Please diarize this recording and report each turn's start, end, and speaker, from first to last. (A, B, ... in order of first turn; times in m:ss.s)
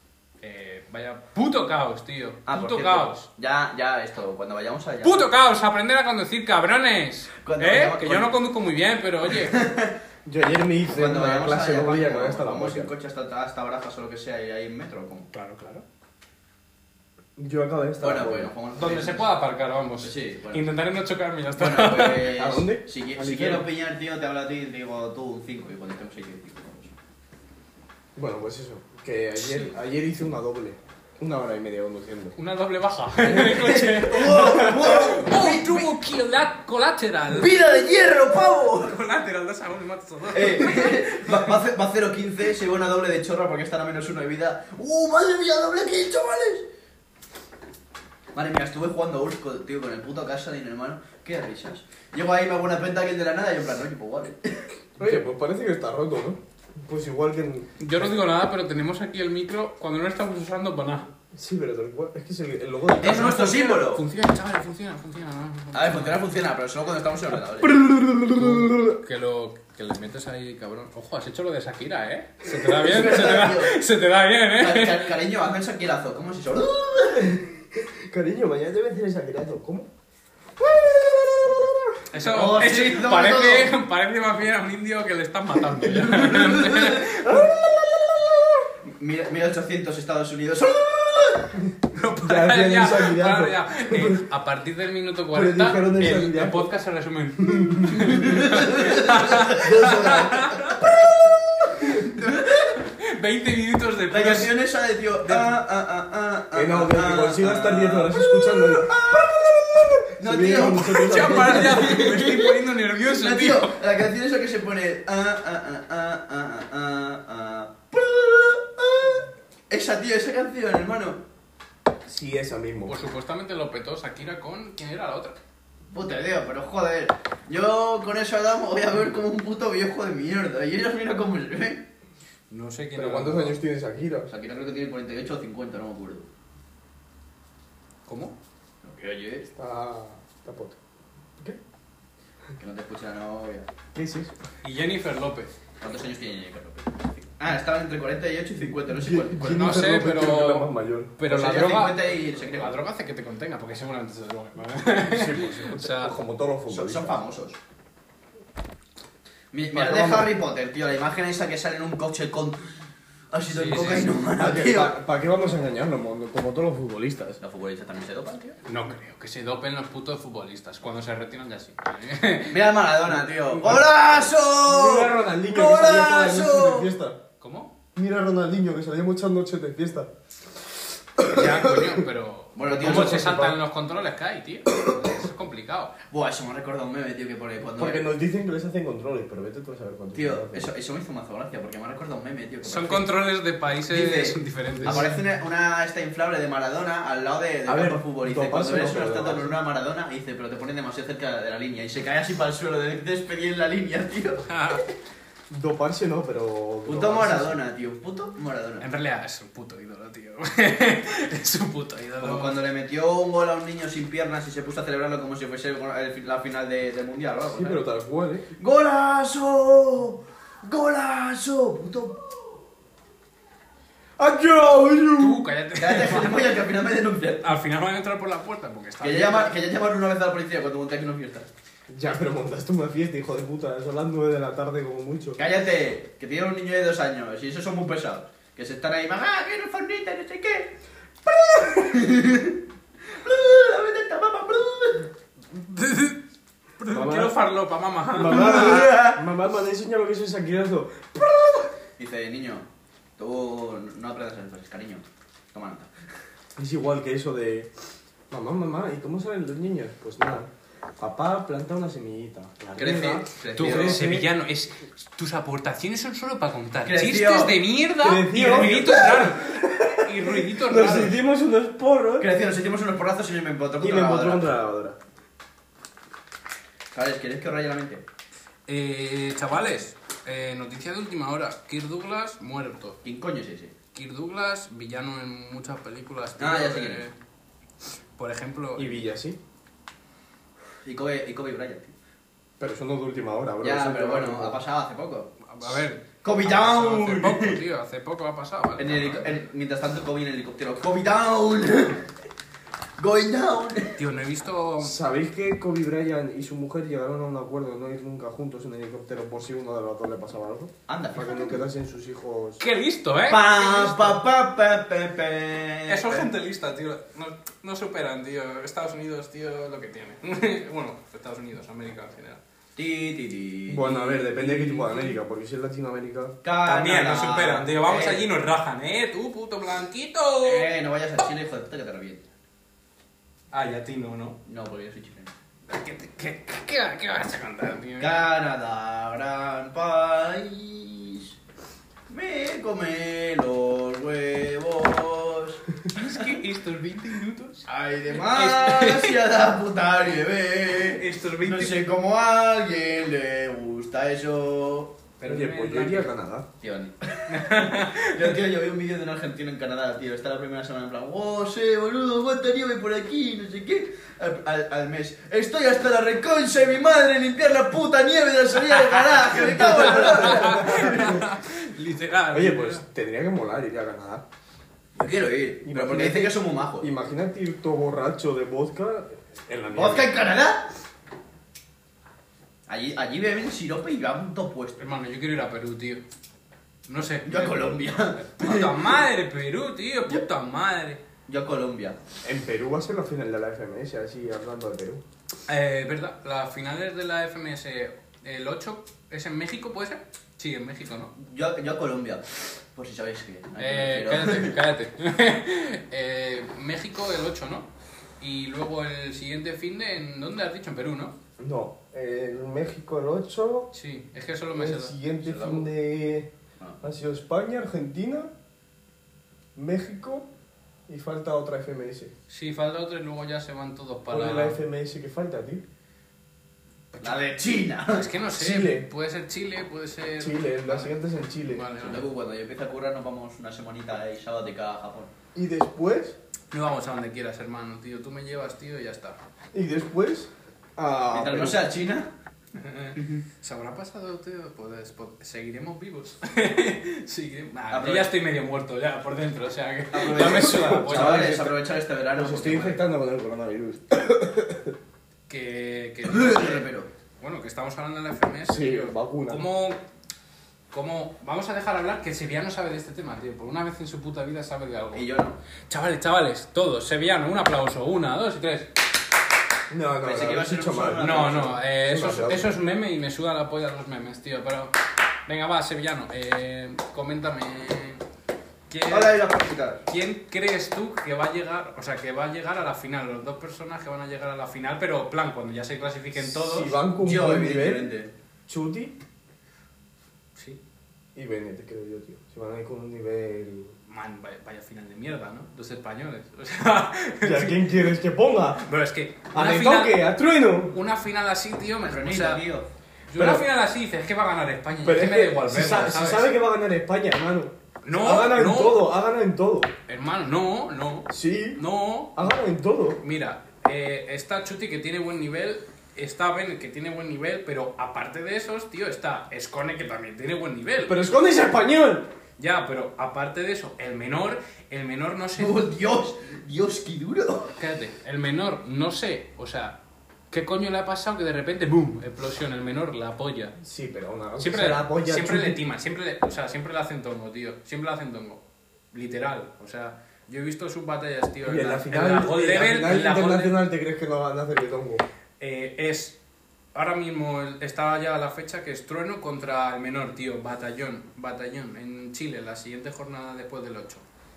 0:00.4-0:03.3 A
0:02.5-0:05.3 B
0:05.0-0:09.6 A
0:07.4-0:08.3 B
0:09.3-0:09.9 B
0:10.2-0:12.9 C
0:10.9-0:15.3 B
0:15.3-0:15.8 A
0:17.4-0:18.5 C
0:18.0-0:19.3 B
0:18.8-0:22.4 A
0:20.0-0:20.6 B
0:21.5-0:26.9 B
0:22.3-0:23.7 C
0:28.1-0:32.4 C
0:29.4-0:29.7 A
0:32.4-0:37.6 A
0:33.2-0:35.9 B
0:37.3-0:39.0 B
0:38.2-0:41.6 A
0:40.3-0:46.7 B
0:48.3-0:54.7 B
0:55.0-0:58.2 C
0:57.8-1:01.1 A
1:01.3-1:03.7 C
1:03.0-1:04.0 B
1:03.0-1:06.2 A
1:05.7-1:07.7 B
1:07.6-1:09.0 C
1:08.3-1:15.1 A
1:12.8-1:13.8 B
1:14.6-1:17.4 B
1:17.2-1:19.9 C
1:20.6-1:22.0 C
1:22.1-1:27.5 A
1:22.2-1:23.7 B
1:26.4-1:27.0 B
1:27.2-1:28.7 C
1:28.8-1:31.6 B
1:31.9-1:40.9 A
1:32.2-1:34.2 C
1:35.3-1:36.7 C
1:37.4-1:38.2 C
1:38.0-1:41.2 B
1:41.9-1:44.5 A
1:42.0-1:42.8 B
1:44.1-1:52.6 B
1:45.2-1:45.6 A
1:46.5-1:52.0 C
1:50.6-1:53.8 A
1:53.1-2:01.2 B
2:02.0-2:03.0 C
2:02.8-2:05.4 A
2:05.9-2:11.8 B
2:12.5-2:13.6 A
2:12.9-2:14.3 C
2:14.3-2:16.3 B
2:18.0-2:18.4 A
2:18.8-2:19.5 B
2:19.5-2:20.8 C
2:22.6-2:23.7 B
2:23.9-2:24.3 C
2:24.6-2:25.5 A
2:25.8-2:29.7 B
2:28.8-2:31.6 C
2:29.4-2:36.1 A
2:31.3-2:32.8 B
2:35.0-2:37.2 C
2:36.7-2:37.6 B
2:39.5-2:42.8 B
2:39.7-2:40.3 C
2:43.3-2:45.0 B
2:43.5-2:44.2 A
2:44.4-2:47.4 C
2:47.4-2:48.6 B
2:48.6-2:52.7 A
2:52.5-2:56.9 B
2:53.5-2:53.9 C
2:54.6-2:57.2 C
2:57.4-2:57.7 A
2:57.9-3:00.1 C
3:01.2-3:02.0 C
3:01.3-3:05.9 A
3:02.6-3:03.3 B
3:02.7-3:03.6 C
3:06.1-3:08.0 B
3:07.8-3:10.7 C
3:10.1-3:13.0 B
3:12.6-3:15.1 A
3:13.9-3:24.9 B
3:14.8-3:15.1 C
3:17.7-3:19.6 C
3:24.4-3:24.8 A
3:25.5-3:27.6 C
3:26.9-3:28.8 B
3:28.8-3:32.6 A
3:32.2-3:37.8 B
3:37.5-3:38.5 C
3:38.6-3:42.4 B
3:44.2-3:45.4 C
3:45.2-3:46.6 A
3:45.8-3:47.4 B
3:47.4-3:49.5 A
3:49.0-3:51.5 B
3:51.9-3:55.4 C
3:55.4-4:00.7 B
4:01.2-4:05.1 B
4:05.5-4:06.2 A
4:06.8-4:08.9 A
4:06.9-4:07.4 C
4:08.1-4:11.7 C
4:08.2-4:09.2 B
4:12.0-4:15.9 B
4:16.6-4:17.7 C
4:18.3-4:24.3 C
4:22.8-4:24.0 B
4:23.6-4:31.2 A
4:26.8-4:27.6 B
4:28.0-4:32.3 C
4:32.2-4:34.4 B
4:33.8-4:35.0 C
4:36.9-4:38.0 B
4:38.7-4:43.0 A
4:43.0-4:43.7 B
4:43.9-4:47.1 A
4:46.4-4:47.1 B
4:48.2-4:49.0 A
4:48.8-4:49.4 C
4:50.8-4:51.9 B
4:52.6-4:54.6 C
4:53.6-4:57.6 B
4:55.4-4:59.4 A
4:58.8-5:02.1 B
5:03.0-5:04.0 B
5:04.0-5:05.0 A
5:04.8-5:12.6 C
5:10.9-5:11.5 B
5:12.6-5:14.2 A
5:13.3-5:16.3 B
5:15.9-5:22.4 A
5:22.8-5:24.9 B
5:23.7-5:26.4 C
5:24.2-5:24.8 A
5:26.4-5:28.2 B
5:26.6-5:30.7 A
5:30.4-5:32.2 B
5:33.5-5:34.4 A
5:34.4-5:35.3 B
5:35.7-5:38.2 A
5:38.0-5:41.4 B
5:42.1-5:46.2 B
5:45.9-5:49.2 A
5:47.7-5:55.0 B
5:50.9-5:51.8 A
5:55.2-5:56.1 A
5:55.2-5:56.5 C
5:56.6-6:11.2 B
5:57.3-5:58.4 A
6:08.6-6:12.8 A
6:09.4-6:11.3 C
6:12.3-6:14.2 C
6:15.0-6:16.9 B
6:15.6-6:20.2 C
6:19.7-6:20.7 B
6:22.7-6:24.8 B
6:24.8-6:26.0 A
6:26.9-6:31.0 A
6:27.2-6:29.0 B
6:31.3-6:32.0 B
6:32.2-6:35.0 C
6:35.5-6:41.1 A
6:41.2-6:44.6 B
6:43.6-6:47.7 A
6:48.2-6:51.1 A
6:51.4-6:53.7 C
6:53.7-6:55.0 A
6:54.5-6:56.3 C
6:55.2-6:55.7 B
6:56.8-6:58.3 C
6:59.5-7:00.3 C
7:00.9-7:02.1 C
7:02.3-7:04.6 A
7:04.1-7:05.6 C
7:06.9-7:07.2 A
7:07.0-7:08.0 B
7:07.9-7:10.9 A
7:08.4-7:08.9 C
7:10.2-7:11.8 C
7:11.4-7:12.0 A
7:11.8-7:15.1 B
7:15.3-7:16.2 C
7:16.5-7:19.2 A
7:19.5-7:21.6 C
7:21.1-7:22.1 B
7:22.5-7:31.4 A
7:27.7-7:28.1 B
7:29.9-7:32.8 B
7:30.2-7:31.6 C
7:32.1-7:34.8 C
7:35.3-7:36.7 A
7:36.0-7:36.9 B
7:37.2-7:39.8 A
7:38.4-7:39.4 C
7:40.7-7:45.1 A
7:44.9-7:45.4 B
7:45.7-7:48.7 A
7:49.7-7:52.5 C
7:50.0-7:51.6 B
7:51.0-7:58.0 A
7:58.7-7:59.3 A
7:58.9-7:59.8 B
7:59.9-8:06.7 A
8:06.1-8:07.9 C
8:07.0-8:08.1 B
8:08.5-8:08.9 C
8:11.1-8:13.7 C
8:13.9-8:17.7 A
8:17.2-8:18.6 C
8:18.5-8:20.1 A
8:19.3-8:20.8 C
8:20.7-8:22.4 A
8:21.8-8:22.7 B
8:23.1-8:26.3 A
8:23.1-8:23.4 C
8:24.8-8:29.7 C
8:27.8-8:28.9 A
8:29.9-8:32.2 A
8:31.1-8:31.6 C
8:32.1-8:33.0 C
8:33.0-8:41.0 A
8:40.8-8:42.1 C
8:42.4-8:45.6 A
8:45.4-8:47.5 B
8:47.6-8:49.8 A
8:50.3-8:53.6 A
8:53.6-8:55.6 C
8:54.4-9:03.6 A
9:01.4-9:05.0 C
9:05.4-9:06.2 A
9:06.7-9:14.0 A